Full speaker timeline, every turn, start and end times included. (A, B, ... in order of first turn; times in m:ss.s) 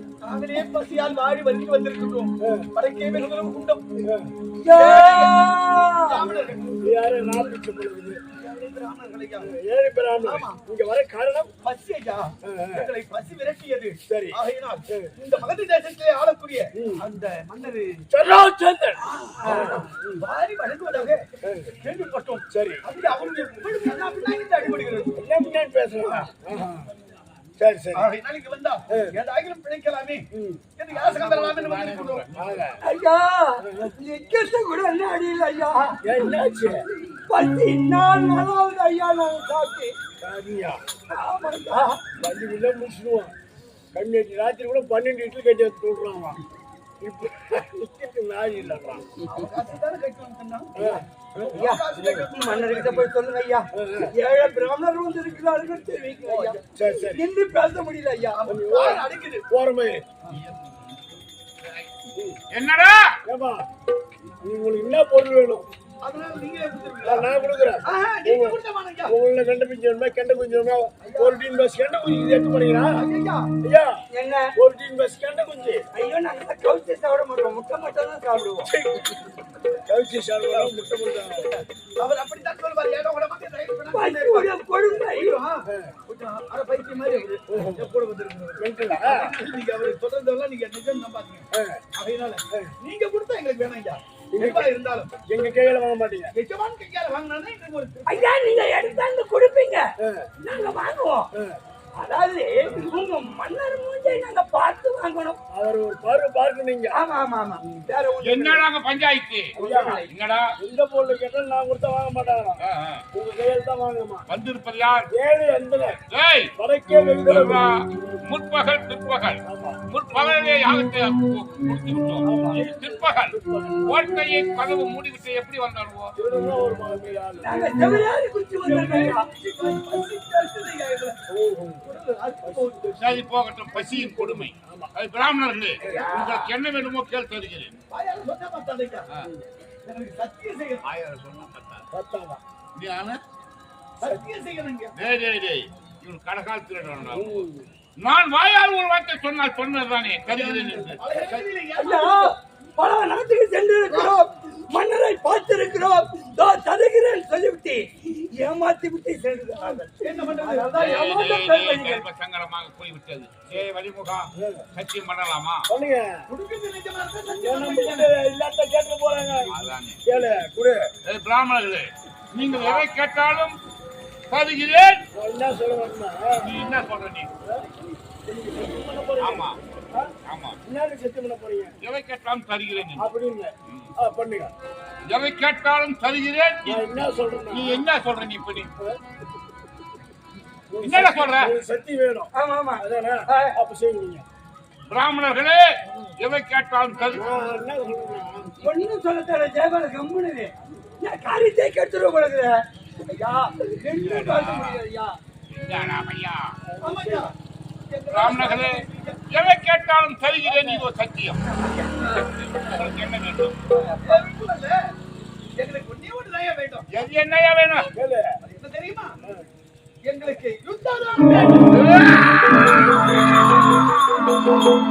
0:00.2-0:04.1 A
0:02.4-0:02.7 B
0:04.0-0:04.3 B
0:04.6-0:06.2 C
0:04.7-0:05.4 A
0:06.0-0:07.0 A
0:06.8-0:08.2 B
0:08.3-0:09.5 A
0:09.4-0:11.5 B
0:10.2-0:10.6 A
0:11.6-0:18.1 A
0:12.4-0:12.9 B
0:14.1-0:14.4 B
0:14.9-0:15.2 B
0:16.8-0:17.0 B
0:18.1-0:20.2 B
0:19.0-0:21.2 A
0:21.4-0:21.8 B
0:21.8-0:25.2 A
0:22.5-0:22.8 B
0:25.2-0:26.9 B
0:27.6-0:28.1 B
0:27.9-0:30.2 A
0:30.3-0:30.6 B
0:30.8-0:32.3 A
0:30.9-0:32.6 D
0:32.4-0:32.8 B
0:32.8-0:36.0 C
0:33.6-0:33.9 B
0:36.0-0:36.8 B
0:37.1-0:40.0 C
0:40.2-0:40.8 B
0:41.1-0:42.0 C
0:42.2-0:43.4 B
0:43.9-0:46.4 B
0:47.0-0:49.1 B
0:49.3-0:50.8 A
0:50.8-0:51.0 B
0:51.4-0:53.1 A
0:51.6-0:58.4 C
0:53.8-0:54.1 B
0:56.3-0:56.6 A
0:56.8-0:57.2 B
0:58.4-0:59.4 A
0:58.5-1:00.1 B
1:02.5-1:03.1 D
1:03.3-1:03.7 B
1:04.4-1:05.7 B
1:06.0-1:07.3 A
1:07.0-1:13.0 B
1:07.8-1:09.1 A
1:11.0-1:11.4 A
1:12.9-1:13.5 A
1:13.6-1:14.0 B
1:14.1-1:14.5 C
1:14.6-1:15.9 B
1:15.9-1:18.7 C
1:18.7-1:19.3 B
1:19.9-1:21.5 B
1:21.6-1:35.1 A
1:23.9-1:25.4 C
1:25.7-1:26.0 B
1:27.5-1:27.9 B
1:28.6-1:29.3 B
1:31.5-1:31.8 B
1:34.3-1:34.7 B
1:35.3-1:36.3 B
1:36.3-1:38.3 A
1:38.1-1:39.8 C
1:40.0-1:40.3 B
1:40.4-1:41.3 C
1:42.0-1:45.4 C
1:45.5-1:47.0 B
1:46.9-1:48.6 C
1:48.2-1:49.5 D
1:49.5-1:50.0 B
1:49.6-1:50.1 C
1:50.1-1:50.5 D
1:50.6-1:52.6 B
1:52.6-1:53.0 D
1:53.1-1:54.3 B
1:54.3-1:55.1 D
1:55.1-1:56.0 B
1:56.1-1:56.5 D
1:56.6-1:58.2 B
1:57.3-2:06.1 D
1:59.4-1:59.8 B
2:02.2-2:02.7 B
2:03.2-2:03.9 B
2:06.2-2:07.7 B
2:07.4-2:09.2 C
2:08.7-2:09.1 B
2:08.9-2:11.2 A
2:11.3-2:11.9 B
2:11.8-2:12.9 A
2:12.4-2:13.2 B
2:13.0-2:17.7 D
2:14.0-2:14.9 B
2:15.8-2:16.2 B
2:17.9-2:19.1 A
2:19.8-2:20.8 A
2:20.8-2:21.8 D
2:21.9-2:22.4 B
2:22.8-2:23.2 D
2:24.0-2:24.9 A
2:25.0-2:31.5 D
2:27.1-2:27.7 B
2:30.3-2:32.3 A
2:31.8-2:42.0 C
2:33.9-2:34.2 A
2:39.9-2:40.8 A
2:40.7-2:45.6 D
2:44.4-2:44.7 B
2:45.7-2:46.2 B
2:46.3-2:48.1 A
2:47.4-2:50.9 B
2:49.5-2:50.0 D
2:51.0-2:53.6 D
2:54.3-2:55.0 D
2:55.1-2:56.5 B
2:56.4-2:57.3 D
2:57.4-3:00.1 B
2:59.2-2:59.6 D
3:00.3-3:00.6 D
3:00.6-3:01.8 B
3:01.8-3:03.1 D
3:03.0-3:04.5 B
3:05.1-3:06.8 D
3:06.6-3:07.8 B
3:07.5-3:08.7 D
3:10.7-3:14.2 B
3:10.8-3:11.5 D
3:12.3-3:13.5 C
3:14.9-3:15.6 D
3:16.2-3:17.2 D
3:17.1-3:18.6 B
3:18.6-3:25.2 C
3:23.9-3:24.8 D
3:25.5-3:26.6 D
3:26.7-3:27.3 B
3:26.8-3:27.3 A
3:27.9-3:29.2 A
3:28.1-3:31.4 D
3:30.5-3:30.8 B
3:31.5-3:32.1 C
3:32.1-3:33.6 D
3:33.7-3:34.2 C
3:34.0-3:34.9 A
3:35.6-3:36.9 A
3:36.9-3:37.9 D
3:37.9-3:38.4 B
3:38.4-3:39.2 A
3:40.0-3:41.8 A
3:41.6-3:43.0 D